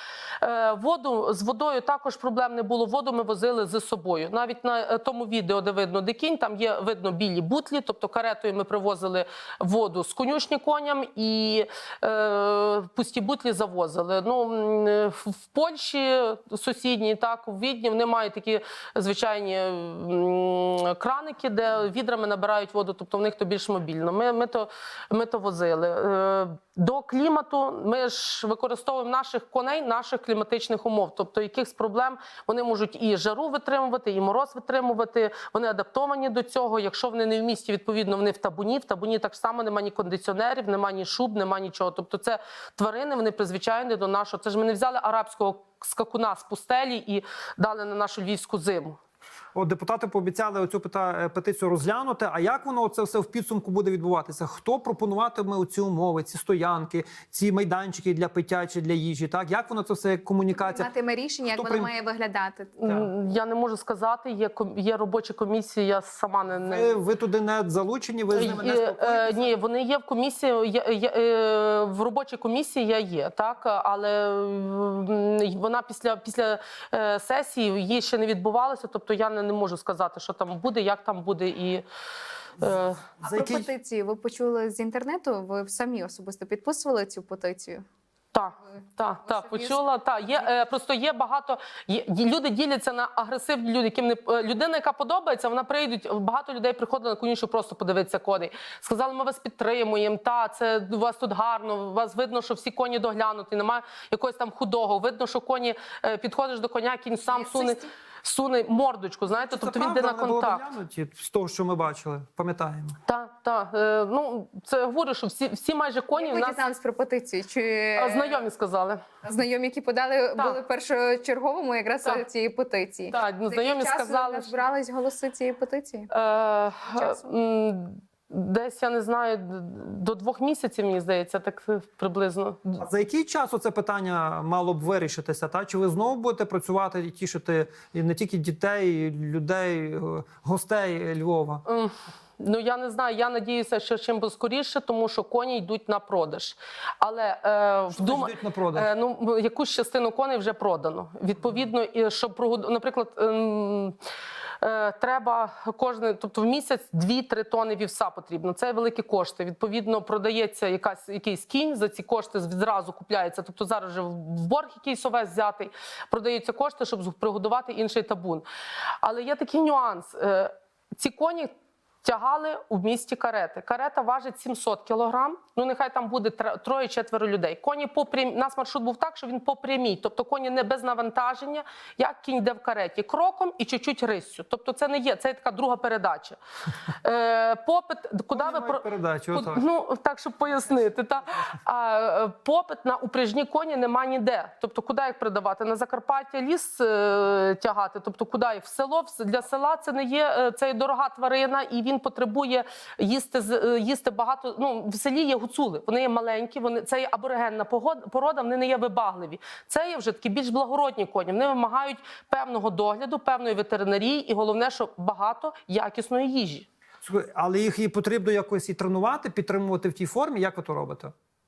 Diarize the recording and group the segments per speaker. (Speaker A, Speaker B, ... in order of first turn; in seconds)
Speaker A: 0.4-49.0, 62.8-66.9, 68.3-81.8, 82.6-83.0, 88.3-110.6, 113.0-116.6, 117.9-119.0, 123.1-124.6, 126.1-132.8, 141.7-153.9, 154.6-168.4, 169.0-171.5, 172.0-186.4, 187.0-216.7
Speaker B: 49.5-60.9, 61.5-61.9, 66.6-69.5, 83.2-83.7, 109.3-113.0, 132.8-141.6, 147.9-148.9, 188.3-189.6, 217.0-221.1
Speaker C: 60.5-62.8, 83.2-87.8, 89.2-89.8, 107.3-107.9, 116.1-118.4, 119.2-126.1, 126.9-127.2